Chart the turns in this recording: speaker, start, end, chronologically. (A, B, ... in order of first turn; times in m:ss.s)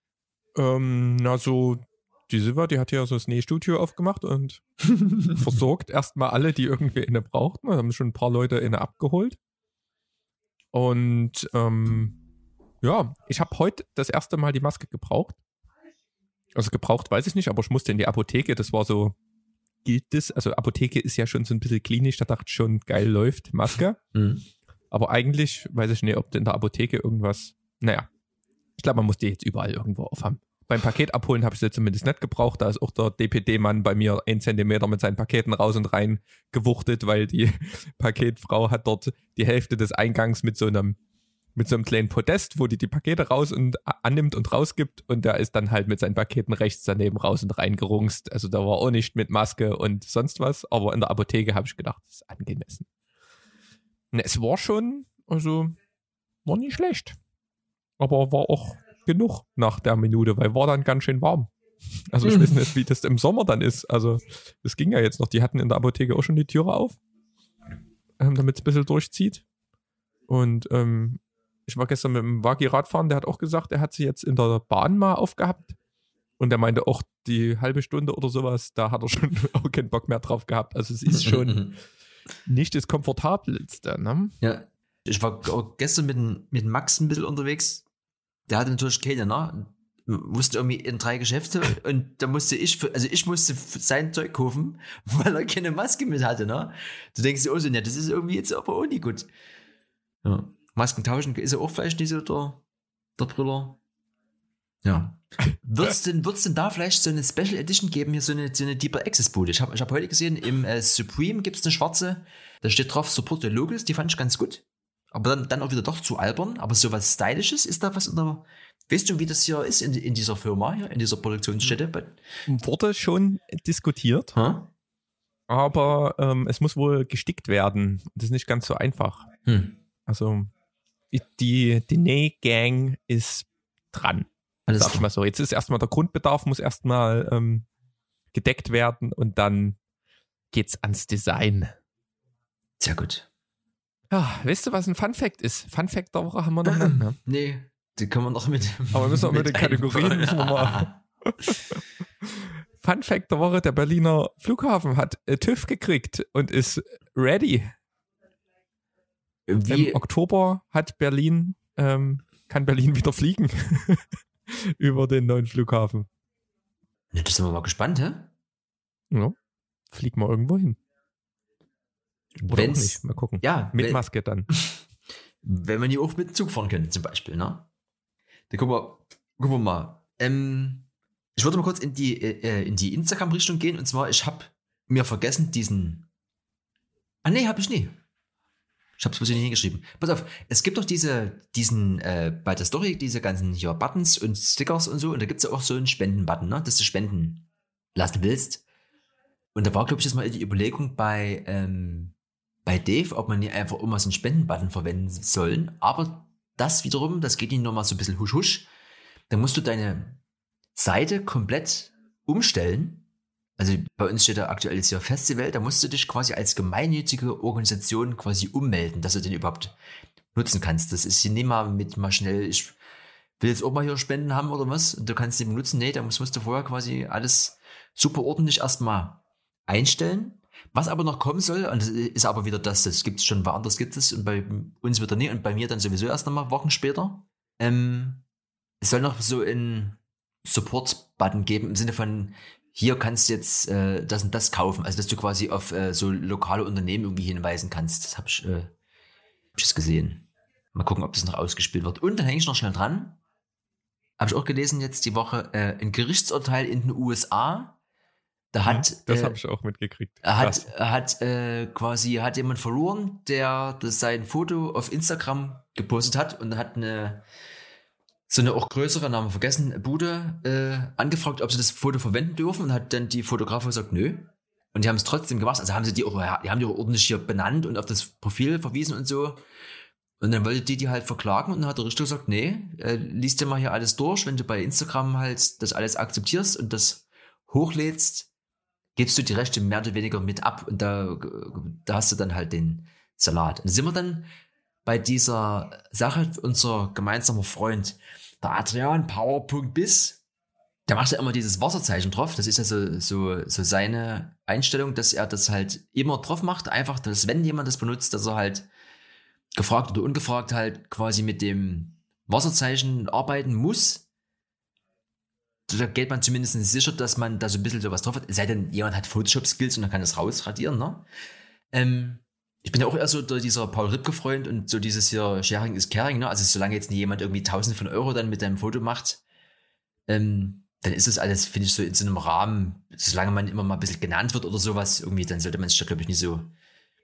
0:00.6-0:04.6 A
0:05.2-0:09.4 A
0:10.7-0:12.2 A
0:12.8-0:15.4 A
0:16.6-0:19.2 A
0:19.8-0:24.0 A
0:24.1-0:24.5 B
0:24.9-0:28.1 A
0:28.8-0:41.0 A
0:41.6-0:52.9 A
0:54.1-0:55.8 A
0:56.4-0:57.2 A
0:58.0-1:01.5 A
1:02.1-1:07.0 A
1:02.2-1:02.5 B
1:08.2-1:09.4 A
1:10.3-1:15.8 A
1:16.4-1:21.8 A
1:21.1-1:21.7 B
1:22.5-1:24.4 A
1:24.4-1:27.8 B
1:28.5-1:39.3 B
1:40.2-1:42.6 B
1:43.2-1:43.8 B
1:44.8-2:02.2 B
2:02.5-2:04.4 A
2:04.4-2:04.7 B
2:05.5-2:09.3 A
2:09.4-2:09.8 B
2:10.1-2:10.5 A
2:11.1-2:17.6 A
2:14.7-2:15.1 B
2:18.3-2:19.8 A
2:20.5-2:21.8 A
2:22.8-2:23.3 B
2:24.1-2:27.1 A
2:26.6-2:31.6 B
2:28.9-2:37.7 A
2:39.5-2:40.0 B
2:39.7-2:46.1 A
2:47.1-2:48.3 B
2:49.9-2:50.8 A
2:52.4-2:54.8 B
2:52.5-2:54.5 A
2:55.4-2:57.7 B
2:58.5-3:06.1 B
3:07.2-3:08.0 B
3:09.0-3:18.6 B
3:19.6-3:28.7 B
3:29.3-3:30.2 B
3:30.8-3:33.1 B
3:33.6-3:39.8 B
3:40.3-3:42.8 B
3:43.4-3:58.2 B
3:58.8-4:08.7 B
4:09.6-4:13.2 B
4:14.2-4:17.8 B
4:18.5-4:19.4 B
4:18.6-4:20.7 A
4:20.2-4:27.2 B
4:28.3-4:39.4 B
4:40.2-4:48.3 B
4:49.0-4:54.3 B
4:54.8-5:00.2 B
5:00.9-5:08.7 B
5:09.6-5:14.1 B
5:15.7-5:21.1 B
5:21.7-5:29.2 B
5:30.1-5:36.5 B